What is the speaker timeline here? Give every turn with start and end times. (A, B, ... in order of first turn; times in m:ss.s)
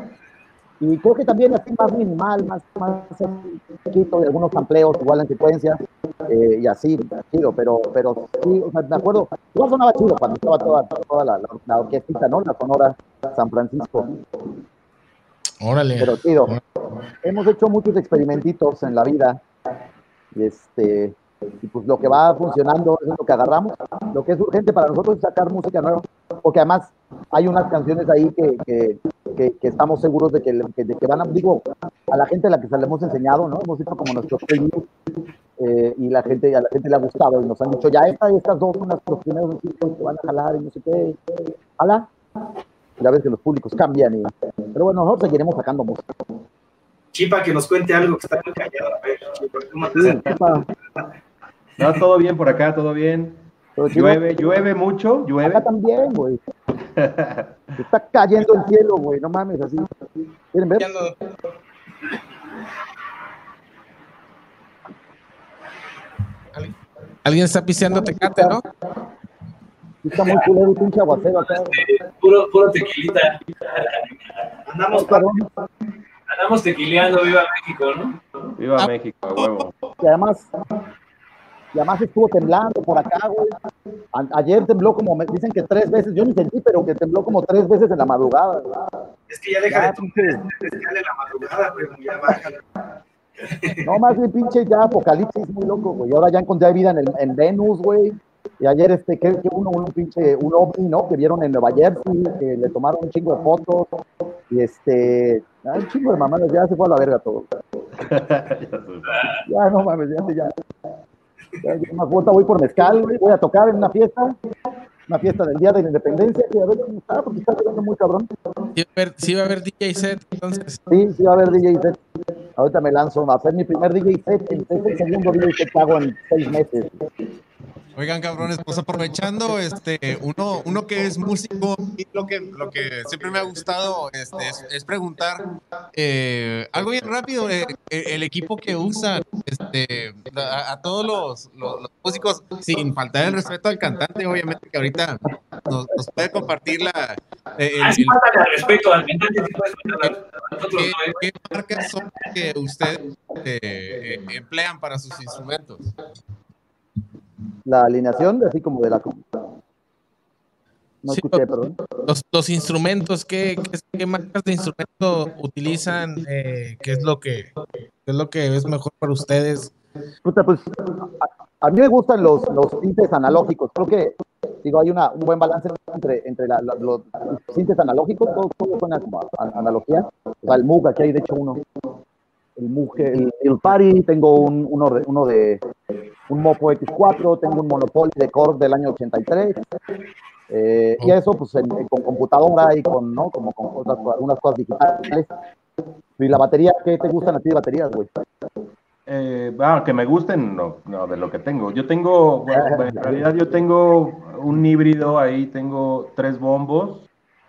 0:00.8-0:14.1 A
0:15.6-0:16.6 B
0:16.0-0:16.5 A
0:17.2-0:19.4 A
0:20.3-0:34.9 A
0:35.6-0:41.2 A
0:41.8-0:42.1 A
0:43.0-0:46.0 A
0:47.1-0:50.2 C
0:49.9-0:50.6 A
0:51.8-0:55.6 D
0:53.8-0:54.2 A
0:55.4-0:56.4 A
0:56.7-0:57.8 D
0:57.8-0:59.9 A
1:00.5-1:00.9 A
1:00.8-1:01.1 B
1:06.5-1:08.6 B
1:08.0-1:08.6 A
1:10.0-1:11.8 A
1:11.4-1:14.1 E
1:14.7-1:15.4 C
1:14.9-1:15.5 A
1:16.3-1:18.2 E
1:18.6-1:19.7 D
1:18.8-1:19.6 F
1:20.0-1:20.5 A
1:21.7-1:23.6 A
1:24.1-1:28.8 A
1:29.3-1:32.6 C
1:29.7-1:30.4 A
1:33.5-1:33.9 C
1:33.8-1:43.9 A
1:44.5-1:47.5 A
1:48.0-1:49.2 D
1:49.1-1:49.4 E
1:49.5-1:50.5 A
1:51.6-1:54.4 A
1:55.1-1:58.3 A
1:58.7-2:00.8 B
2:00.9-2:02.0 A
2:02.6-2:07.0 A
2:08.0-2:28.2 F
2:27.8-2:31.2 E
2:30.8-2:35.8 F
2:37.6-2:39.2 A
2:41.0-2:41.8 A
2:41.1-2:41.4 B
2:42.0-2:47.5 B
2:48.0-2:49.7 B
2:50.2-3:01.6 A
3:02.6-3:05.6 A
3:06.3-3:09.6 A
3:10.5-3:15.3 A
3:16.2-3:18.1 A
3:19.0-3:27.1 D
3:22.5-3:23.2 A